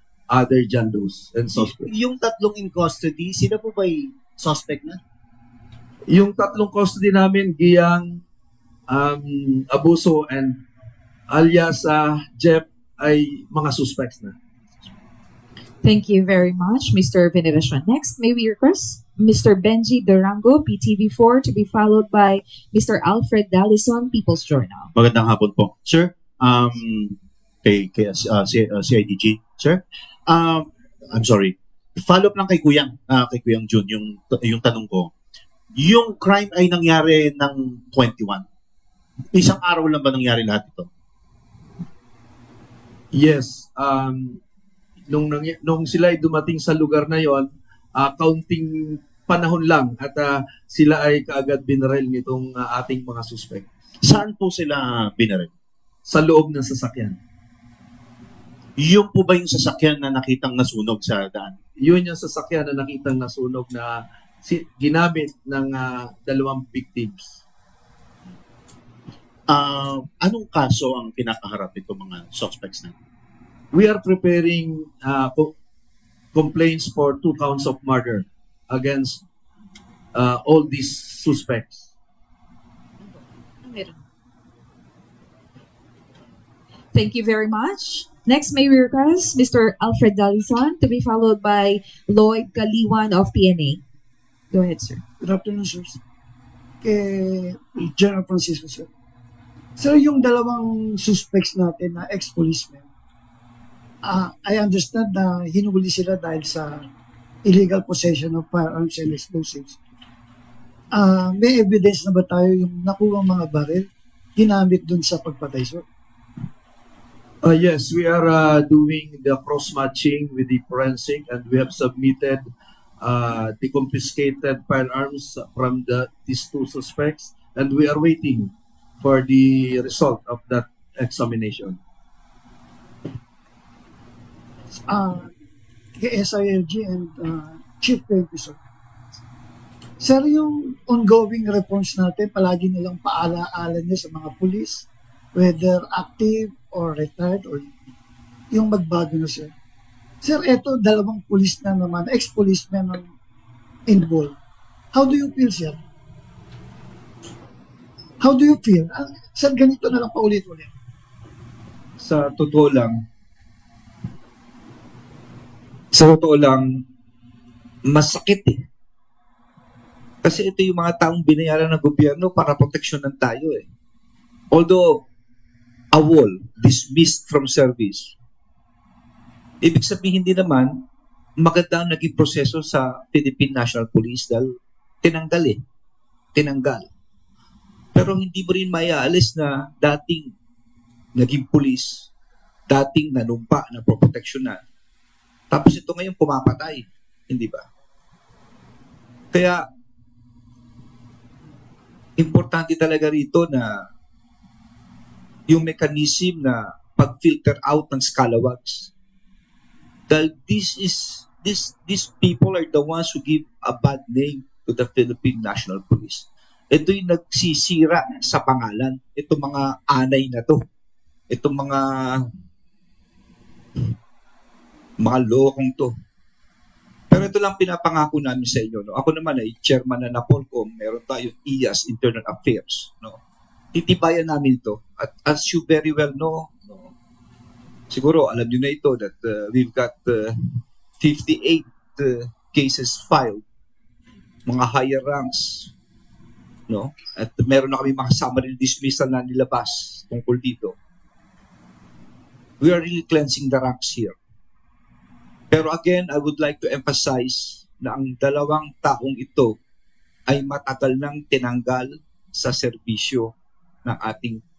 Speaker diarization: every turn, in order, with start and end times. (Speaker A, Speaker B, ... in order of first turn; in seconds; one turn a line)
Speaker A: 0.3-1.9
Speaker B: 1.5-5.0
Speaker A: 6.1-8.2
Speaker A: 8.9-10.6
Speaker A: 11.3-14.3
Speaker C: 15.8-24.9
Speaker D: 24.9-35.1
Speaker D: 35.8-38.4
Speaker D: 39.3-40.9
Speaker A: 43.1-44.4
Speaker A: 45.1-53.7
Speaker D: 54.0-55.5
Speaker A: 56.1-57.1
Speaker D: 58.8-61.5
Speaker A: 61.8-67.4
Speaker D: 69.5-72.9
Speaker A: 73.7-75.5
Speaker A: 76.3-79.2
Speaker A: 80.1-81.9
Speaker C: 83.6-84.0
Speaker C: 86.9-93.8
Speaker C: 94.5-95.0
Speaker E: 95.2-96.0
Speaker E: 96.8-98.9
Speaker E: 99.8-102.9
Speaker E: 104.0-106.8
Speaker E: 107.4-109.8
Speaker E: 110.9-115.8
Speaker A: 117.4-122.4
Speaker A: 123.0-131.8
Speaker E: 134.9-135.3
Speaker E: 136.0-138.6
Speaker E: 140.0-147.7
Speaker E: 148.5-149.5
Speaker E: 150.2-153.1
Speaker E: 153.9-154.3
Speaker E: 154.9-155.8
Speaker E: 158.2-160.7
Speaker F: 162.0-163.0
Speaker F: 165.9-166.8
Speaker F: 167.8-168.6
Speaker F: 170.2-173.6
Speaker F: 174.5-175.0
Speaker F: 175.9-178.1
Speaker F: 179.6-180.7
Speaker F: 181.4-184.5
Speaker F: 185.0-185.6
Speaker F: 186.3-186.9
Speaker F: 187.9-190.3
Speaker F: 191.2-192.1
Speaker F: 192.7-194.6
Speaker F: 195.5-197.6
Speaker F: 199.3-199.6
Speaker F: 202.2-203.7
Speaker F: 205.5-208.9
Speaker F: 210.1-220.6
Speaker F: 221.3-222.2
Speaker F: 225.0-225.9
Speaker F: 227.1-233.2
Speaker F: 233.7-236.9
Speaker F: 237.9-240.3
Speaker F: 241.0-243.4
Speaker F: 244.5-245.7
Speaker F: 246.7-250.7
Speaker F: 252.6-254.1
Speaker F: 255.5-259.5
Speaker F: 260.3-263.3
Speaker F: 263.8-264.4